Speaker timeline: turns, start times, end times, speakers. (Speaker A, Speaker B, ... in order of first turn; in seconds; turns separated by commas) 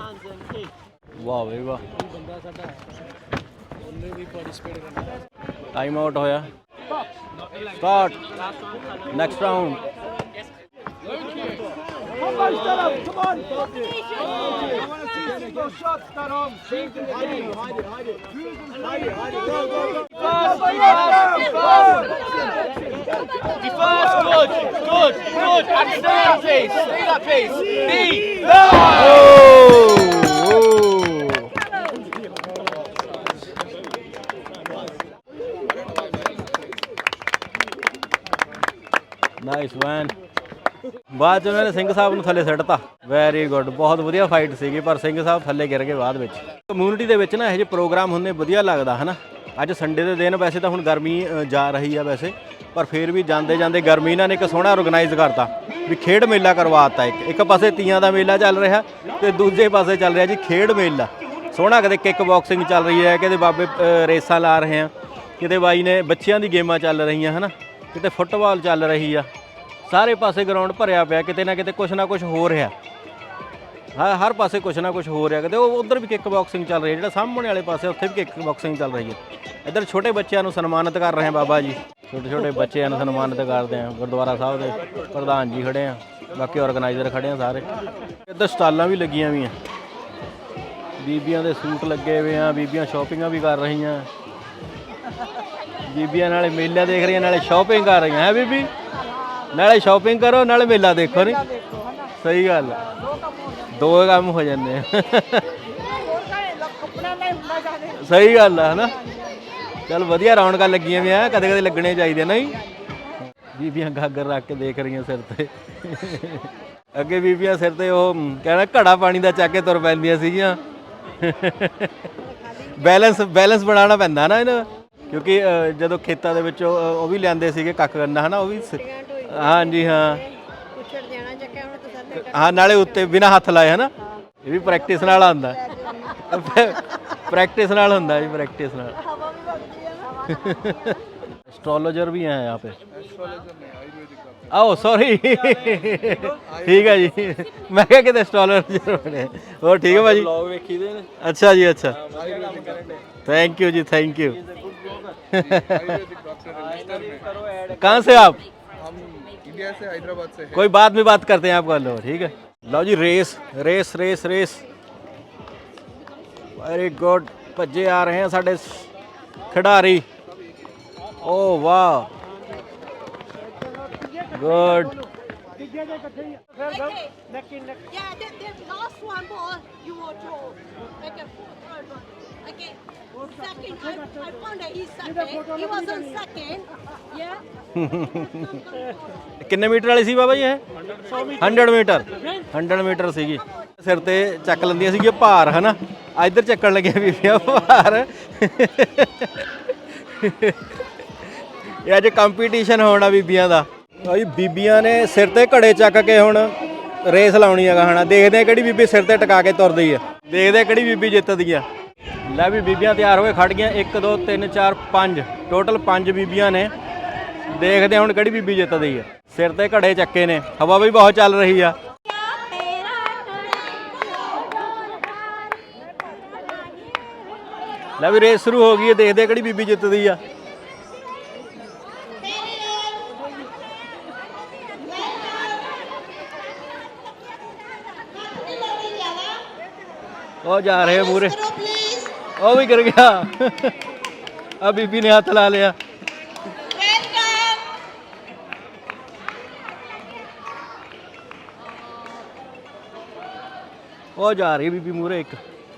Speaker A: 1.2-1.8, Speaker A: 5.7-6.5, Speaker A: 7.7-8.2, Speaker A: 9.1-9.8, Speaker B: 17.0-17.5, Speaker B: 20.1-22.0, Speaker B: 23.6-28.4, Speaker A: 28.7-31.5, Speaker A: 39.4-40.1, Speaker A: 41.1-69.3, Speaker A: 69.9-72.7, Speaker A: 73.9-87.7, Speaker A: 88.2-89.5, Speaker A: 91.0-94.1, Speaker A: 95.8-98.7, Speaker A: 99.5-101.5, Speaker A: 102.2-102.8, Speaker A: 103.7-105.5, Speaker C: 107.0-107.5, Speaker A: 107.8-109.0, Speaker A: 109.9-112.6, Speaker A: 113.5-120.6, Speaker A: 121.2-130.3, Speaker D: 130.8-131.2, Speaker A: 132.1-133.9, Speaker A: 134.4-139.0, Speaker A: 140.3-142.8, Speaker C: 143.1-144.3, Speaker A: 144.5-152.1, Speaker C: 152.2-152.5, Speaker B: 152.2-153.0, Speaker A: 153.2-154.4, Speaker A: 155.3-156.0, Speaker C: 156.1-157.2, Speaker A: 157.7-158.4, Speaker C: 159.4-160.4, Speaker A: 160.5-164.6, Speaker A: 166.6-168.9, Speaker A: 169.5-170.0, Speaker A: 171.2-172.1, Speaker A: 174.3-175.0, Speaker D: 176.7-177.1, Speaker D: 177.9-182.7, Speaker D: 184.5-185.0, Speaker D: 185.7-186.6, Speaker A: 187.7-188.7, Speaker A: 189.4-190.6, Speaker A: 191.3-200.8, Speaker A: 201.8-211.7, Speaker A: 212.3-216.7, Speaker A: 217.5-221.8, Speaker D: 222.1-225.5, Speaker A: 228.0-230.2, Speaker D: 232.3-233.0, Speaker D: 235.1-235.3, Speaker D: 238.7-239.3, Speaker A: 240.4-241.8, Speaker A: 242.3-243.8, Speaker A: 244.6-245.8, Speaker A: 254.2-255.4